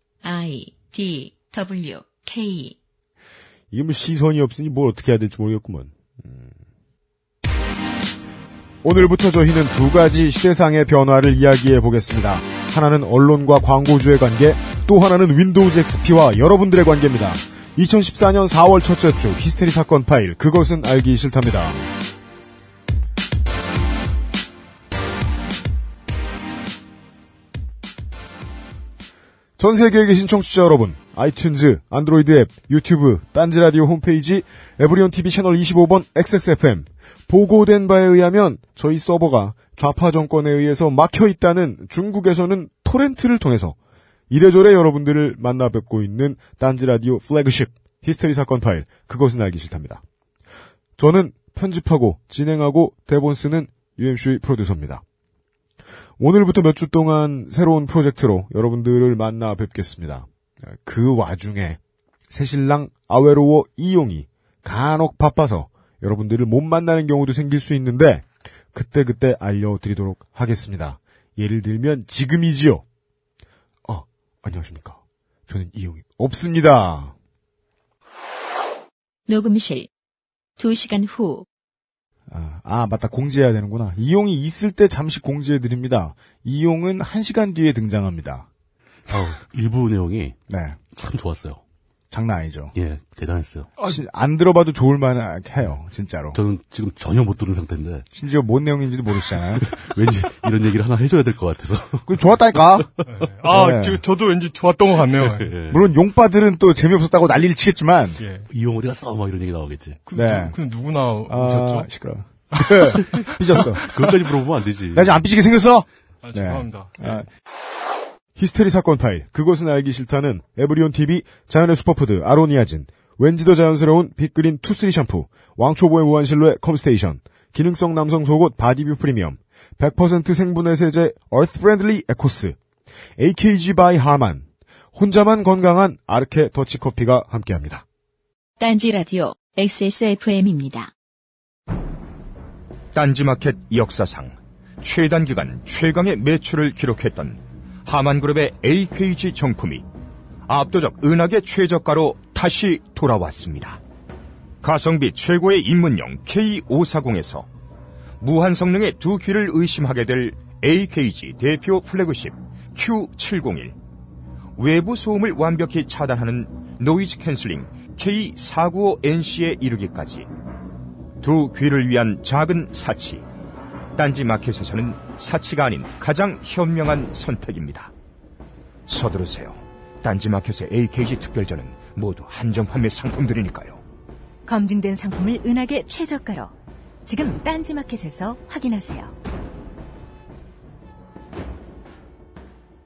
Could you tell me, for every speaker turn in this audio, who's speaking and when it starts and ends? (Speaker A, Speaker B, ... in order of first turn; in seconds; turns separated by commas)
Speaker A: 0.2-2.8, Speaker B: 3.7-6.6, Speaker B: 8.8-21.9, Speaker B: 29.6-43.8, Speaker B: 44.3-50.0, Speaker B: 51.0-55.0, Speaker B: 56.2-61.8, Speaker B: 62.3-72.8, Speaker B: 73.9-77.1, Speaker A: 79.3-79.9, Speaker A: 80.6-81.5, Speaker B: 82.3-88.5, Speaker C: 89.1-90.4, Speaker B: 90.5-90.8, Speaker C: 90.9-91.6, Speaker B: 92.1-92.7, Speaker C: 92.8-93.8, Speaker B: 93.8-96.4, Speaker C: 96.3-98.1, Speaker B: 98.1-99.8, Speaker C: 99.6-102.2, Speaker B: 102.1-102.9, Speaker D: 103.1-105.5, Speaker B: 103.5-104.0, Speaker C: 105.2-105.9, Speaker B: 105.7-108.2, Speaker D: 108.2-108.5, Speaker C: 108.5-110.0, Speaker D: 110.1-111.9, Speaker B: 110.2-110.6, Speaker B: 111.3-113.8, Speaker D: 112.6-113.0, Speaker D: 113.6-113.9, Speaker C: 113.8-115.2, Speaker B: 114.9-117.3, Speaker D: 116.2-117.2, Speaker B: 118.4-132.6, Speaker B: 133.2-137.8, Speaker A: 138.6-140.9, Speaker E: 142.9-149.8, Speaker E: 150.5-153.8, Speaker E: 154.6-157.5, Speaker E: 158.2-163.8, Speaker E: 164.6-170.3, Speaker E: 171.2-173.2, Speaker E: 174.0-177.9, Speaker E: 178.9-183.8, Speaker F: 184.5-186.5, Speaker F: 187.1-189.1